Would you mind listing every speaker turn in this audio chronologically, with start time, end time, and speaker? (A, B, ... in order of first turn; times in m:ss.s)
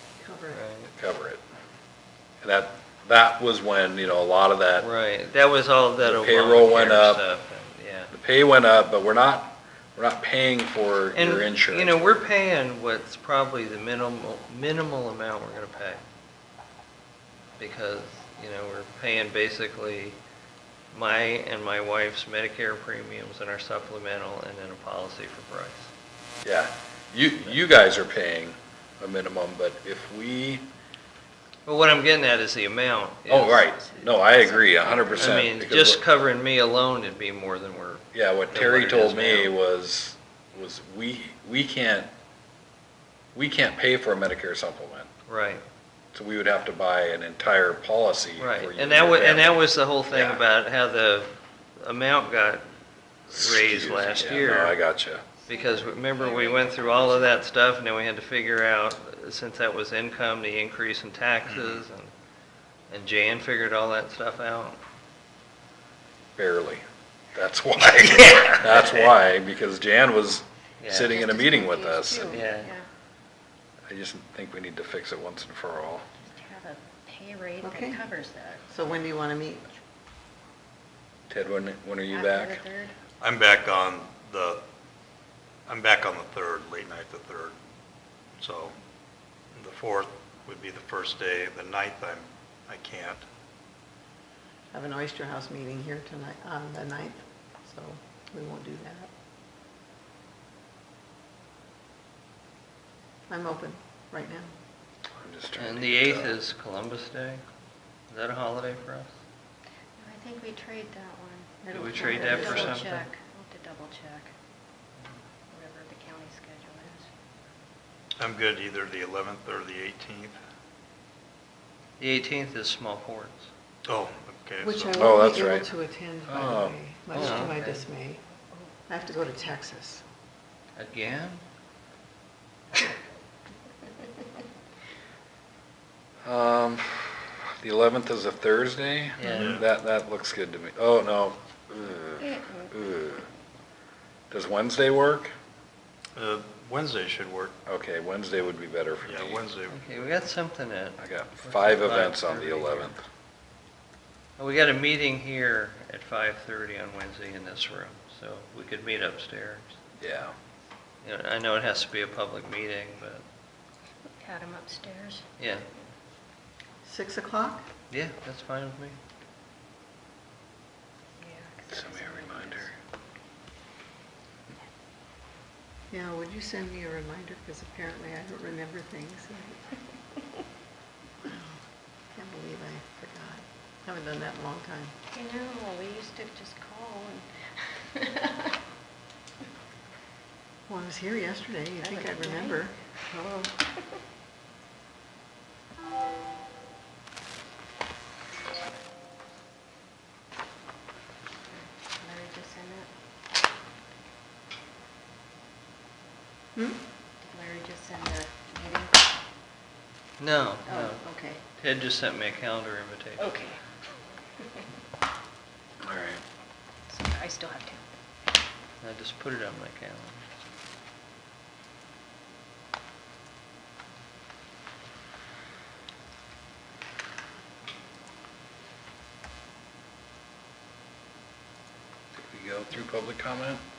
0:00.2-0:00.6 A
0:00.5-0:00.9 B
0:01.0-0:01.4 C
0:02.4-0:04.9 C
0:04.8-0:08.1 B
0:06.0-0:07.2 C
0:08.1-0:12.0 C
0:11.1-0:16.0 B
0:17.6-0:20.2 B
0:20.9-0:25.9 B
0:26.4-0:30.7 C
0:31.7-0:33.7 B
0:33.3-0:36.0 C
0:33.7-0:35.4 D
0:35.2-0:39.6 B
0:38.1-0:42.1 C
0:43.4-0:45.1 C
0:45.3-0:45.6 B
0:46.1-0:50.4 C
0:48.4-0:52.7 B
0:53.3-0:54.8 B
0:53.3-0:55.3 C
0:55.5-0:57.4 D
0:55.5-1:02.1 B
1:01.5-1:01.8 C
1:02.9-1:04.8 B
1:06.4-1:12.4 C
1:08.2-1:09.1 B
1:10.8-1:11.2 B
1:11.1-1:12.8 D
1:12.3-1:12.7 B
1:13.9-1:16.1 C
1:16.2-1:18.7 D
1:17.6-1:18.0 A
1:18.7-1:19.7 A
1:21.3-1:22.6 C
1:22.1-1:23.0 D
1:23.2-1:24.6 E
1:25.7-1:27.6 E
1:28.4-1:28.8 E
1:29.5-1:33.2 E
1:34.7-1:39.1 A
1:43.3-1:44.5 A
1:45.2-1:46.4 C
1:45.6-1:47.4 B
1:48.1-1:49.1 B
1:50.0-1:54.3 D
1:51.6-1:53.0 A
1:51.7-1:53.1 B
1:55.5-1:57.1 D
1:58.2-2:00.4 E
2:02.0-2:03.5 B
2:03.8-2:05.1 E
2:04.6-2:08.2 A
2:04.9-2:05.7 C
2:06.3-2:06.8 C
2:07.1-2:07.8 B
2:08.9-2:10.0 A
2:10.8-2:11.4 B
2:16.2-2:23.3 C
2:19.2-2:19.5 B
2:19.3-2:19.7 E
2:22.2-2:22.7 D
2:24.3-2:25.3 C
2:26.2-2:27.6 E
2:27.7-2:29.4 C
2:29.0-2:29.8 E
2:29.7-2:33.0 B
2:31.0-2:33.0 C
2:34.4-2:39.8 B
2:40.0-2:40.3 C
2:41.0-2:43.2 B
2:44.2-2:45.2 D
2:45.4-2:45.6 B
2:46.8-2:47.6 A
2:47.9-2:49.0 B
2:51.2-2:52.7 D
2:51.7-2:52.8 C
2:55.9-2:59.6 A
3:01.2-3:01.6 A
3:02.1-3:04.9 A
3:05.1-3:07.3 D
3:07.9-3:08.6 D
3:10.7-3:12.7 A
3:11.8-3:14.0 D
3:21.5-3:22.9 D
3:27.2-3:29.0 D
3:30.2-3:33.4 B
3:30.7-3:31.4 D
3:33.2-3:33.6 D
3:35.8-3:36.2 C
3:36.9-3:37.8 D
3:38.8-3:40.2 B
3:52.2-3:53.6 C